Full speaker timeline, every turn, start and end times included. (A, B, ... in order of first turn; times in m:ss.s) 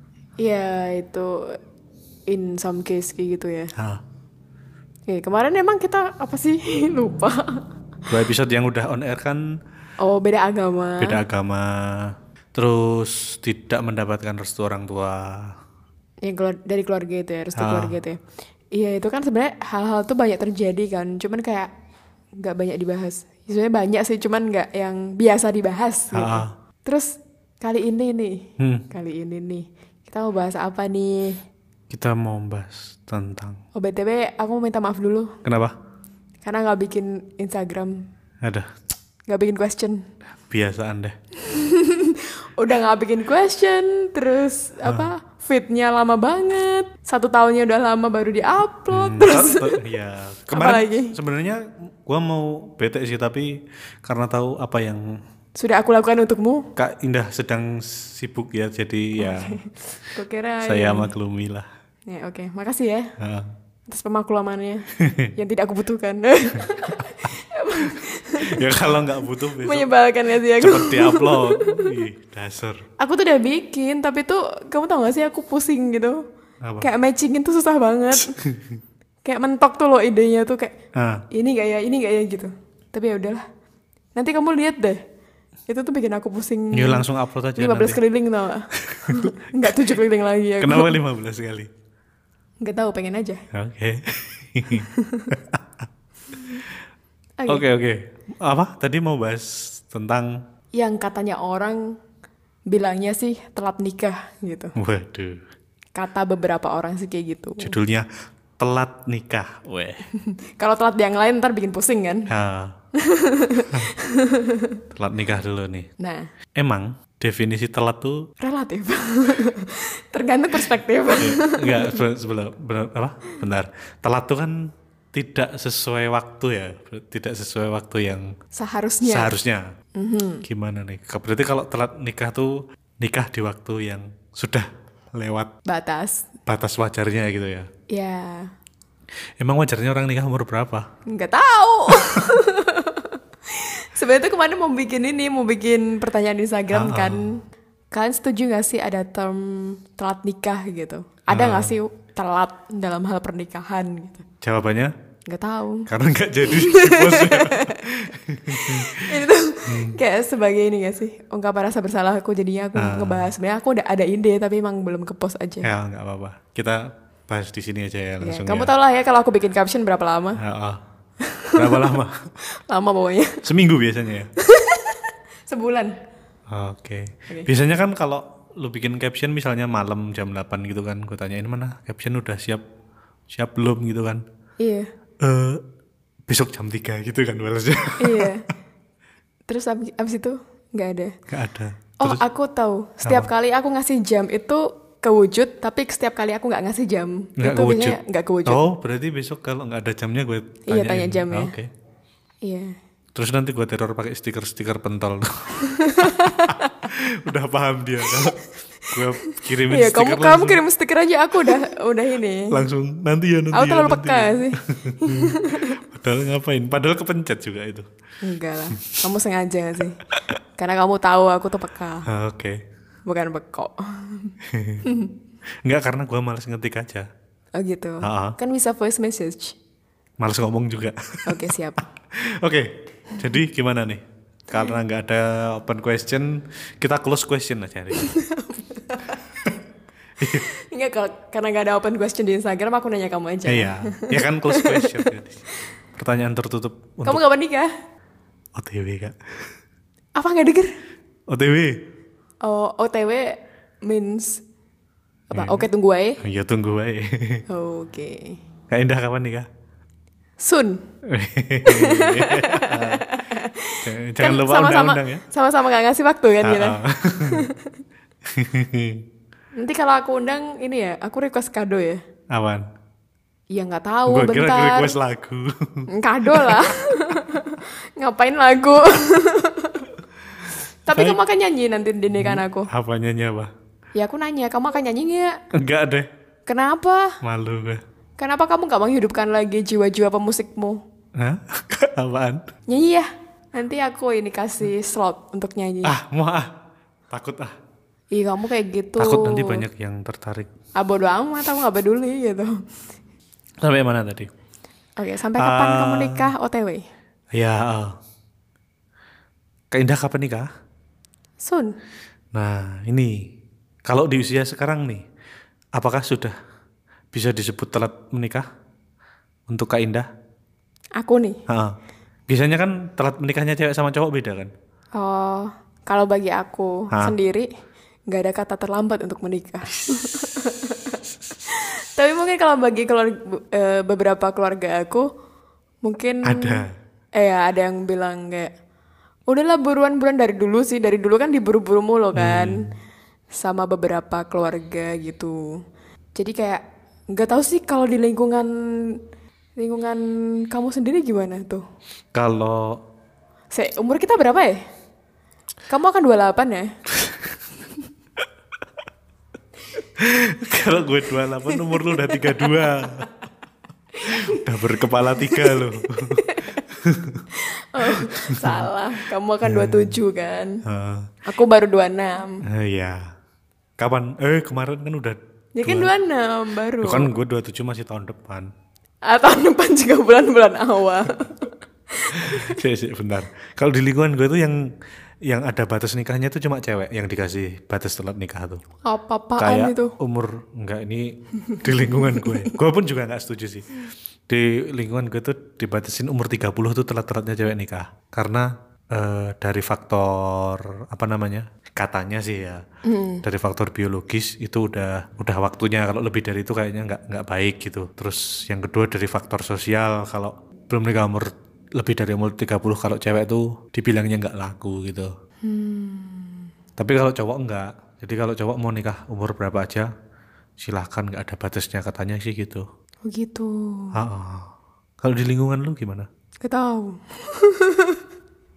0:00.4-0:01.6 A
0:02.3-0:03.7 A
0:03.8-0:04.0 B
0:05.1-0:07.6 A
0:08.1-0:09.4 B
0:10.0-0:11.2 A
0:11.0-0:15.5 B
0:16.2-0:18.2 A
0:17.5-0:18.0 B
0:18.7-0:21.7 A
0:22.4-0:31.4 A
0:26.1-0:26.5 B
0:28.6-0:28.8 B
0:31.9-0:33.6 B
0:33.7-0:35.4 A
0:35.4-0:35.7 B
0:36.4-0:38.1 A
0:38.4-0:38.7 B
0:39.3-0:40.0 A
0:40.5-0:41.2 B
0:41.4-0:49.8 A
0:44.8-0:45.1 B
0:48.9-0:55.2 B
0:50.5-0:51.2 A
0:55.6-0:56.7 A
0:56.8-0:59.6 B
0:59.2-1:01.1 A
1:00.6-1:01.7 B
1:02.1-1:03.1 A
1:03.2-1:03.5 B
1:03.9-1:08.9 A
1:05.0-1:05.3 B
1:08.4-1:09.9 B
1:09.4-1:11.9 A
1:10.6-1:12.8 B
1:13.0-1:16.2 A
1:16.6-1:16.9 B
1:16.8-1:18.4 A
1:18.2-1:18.8 B
1:19.2-1:20.7 A
1:21.0-1:21.2 B
1:21.3-1:23.4 A
1:24.1-1:25.0 A
1:25.7-1:27.0 A
1:26.7-1:28.0 B
1:27.6-1:31.0 A
1:28.7-1:29.7 B
1:30.6-1:31.7 B
1:32.6-1:33.4 A
1:33.5-1:35.9 B
1:34.7-1:35.3 A
1:36.3-1:36.6 A
1:37.4-1:37.6 A
1:37.5-1:40.4 B
1:40.7-1:42.0 A
1:42.7-1:44.7 A
1:44.8-1:45.4 B
1:46.0-1:47.7 A
1:47.6-1:48.1 B
1:48.6-1:50.0 B
1:50.1-1:52.3 A
1:52.3-1:52.7 B
1:52.9-1:54.8 A
1:54.9-1:55.9 B
1:56.0-1:56.3 A
1:56.6-1:58.3 B
1:58.4-2:02.0 A
2:01.2-2:08.3 B
2:08.5-2:09.3 A
2:09.0-2:09.6 B
2:10.0-2:10.4 A
2:10.4-2:15.5 B
2:15.6-2:16.3 A
2:16.4-2:17.7 B
2:17.9-2:18.5 A
2:19.4-2:20.9 B
2:21.1-2:27.4 A
2:21.9-2:22.2 B
2:26.7-2:27.2 B
2:27.9-2:34.2 A
2:31.3-2:31.8 B
2:34.4-2:34.9 B
2:35.3-2:35.9 A
2:35.9-2:40.0 B
2:36.4-2:45.7 A
2:42.7-2:43.3 B
2:45.6-2:48.7 B
2:48.2-2:50.4 A
2:50.4-2:50.8 B
2:51.2-2:52.0 A
2:51.5-2:52.2 B
2:52.5-2:53.4 A
2:53.4-2:54.3 B
2:54.4-2:55.9 A
2:56.5-3:02.6 B
3:03.3-3:04.2 B
3:04.6-3:04.9 A
3:05.2-3:05.6 B
3:06.3-3:08.3 B
3:08.0-3:08.4 A
3:09.5-3:11.1 A
3:11.3-3:12.2 B
3:12.0-3:18.6 A
3:13.0-3:13.3 B
3:17.4-3:21.7 B
3:20.7-3:21.5 A
3:22.4-3:22.7 A
3:23.1-3:30.6 B
3:25.6-3:26.9 A
3:28.1-3:32.5 A
3:32.5-3:37.9 B
3:33.5-3:35.8 A
3:38.2-3:40.0 A
3:40.6-3:42.1 A
3:42.1-3:42.6 B
3:43.1-3:45.1 A
3:44.4-3:44.9 B
3:45.6-3:47.1 B
3:47.6-3:49.6 A
3:48.0-3:48.4 B
3:50.2-3:51.4 B
3:51.3-3:51.8 A
3:52.1-3:58.0 B
3:58.0-3:59.4 A
4:00.2-4:00.5 B
4:00.3-4:05.1 A
4:03.5-4:05.4 B
4:05.9-4:07.2 B
4:07.0-4:07.7 A
4:08.6-4:09.5 B
4:10.2-4:10.7 A
4:11.3-4:11.8 B
4:12.4-4:14.4 A
4:15.3-4:15.6 B
4:15.3-4:16.2 A
4:16.2-4:17.4 B
4:17.5-4:18.4 A
4:18.7-4:19.5 B
4:20.4-4:20.8 A
4:21.1-4:23.2 B
4:21.6-4:27.8 A
4:23.8-4:25.2 B
4:26.4-4:27.5 B
4:28.2-4:29.0 B
4:29.6-4:32.0 A
4:32.3-4:32.7 B
4:33.5-4:34.9 A
4:34.1-4:36.7 B
4:35.9-4:39.9 A
4:40.8-4:42.7 A
4:40.9-4:41.2 B
4:42.2-4:43.5 B
4:43.9-4:45.4 A
4:45.5-4:46.1 B
4:46.4-4:47.2 A
4:47.2-4:47.8 B
4:48.2-4:50.8 A
4:51.2-4:52.5 B
4:52.7-4:55.9 A
4:55.8-4:56.5 B
4:57.1-4:57.5 B
4:58.1-4:59.6 A
4:59.0-5:00.5 B
5:00.8-5:02.6 A
5:03.6-5:04.3 B
5:05.0-5:06.8 A
5:05.4-5:06.3 B
5:07.3-5:08.0 B
5:09.7-5:10.5 B
5:11.4-5:11.7 A
5:12.3-5:13.1 B
5:13.9-5:15.0 B
5:15.8-5:16.4 B
5:17.1-5:18.4 B
5:19.5-5:20.1 B
5:21.0-5:21.4 A
5:21.5-5:21.8 B
5:22.3-5:24.5 B
5:24.9-5:27.5 A
5:28.1-5:35.0 A
5:35.8-5:36.6 A
5:36.2-5:36.6 B
5:37.2-5:38.5 A
5:39.3-5:42.6 A
5:42.1-5:42.7 B
5:43.4-5:45.4 A
5:46.2-5:46.6 A
5:47.1-5:48.9 A
5:49.6-5:51.6 A
5:52.1-5:52.8 B
5:53.5-5:54.6 A
5:55.7-5:56.7 A
5:56.9-5:57.4 B
6:00.0-6:03.1 B
6:01.5-6:02.2 A
6:04.0-6:06.6 A
6:04.0-6:07.2 B
6:07.3-6:10.6 A
6:07.8-6:08.7 B
6:09.4-6:10.0 B
6:10.6-6:11.1 B
6:11.2-6:12.4 A
6:12.4-6:13.1 B
6:13.8-6:15.9 B
6:15.6-6:17.1 A
6:16.8-6:18.5 B
6:19.0-6:22.6 A
6:22.1-6:24.6 B
6:25.3-6:28.6 B
6:28.8-6:29.9 A
6:29.4-6:42.6 B
6:31.4-6:32.4 A
6:42.8-6:43.2 A
6:43.2-6:55.1 B
6:55.4-6:56.5 A
6:56.8-6:59.9 B
7:00.6-7:02.6 B
7:03.0-7:04.0 A
7:03.9-7:06.1 B
7:06.4-7:08.0 A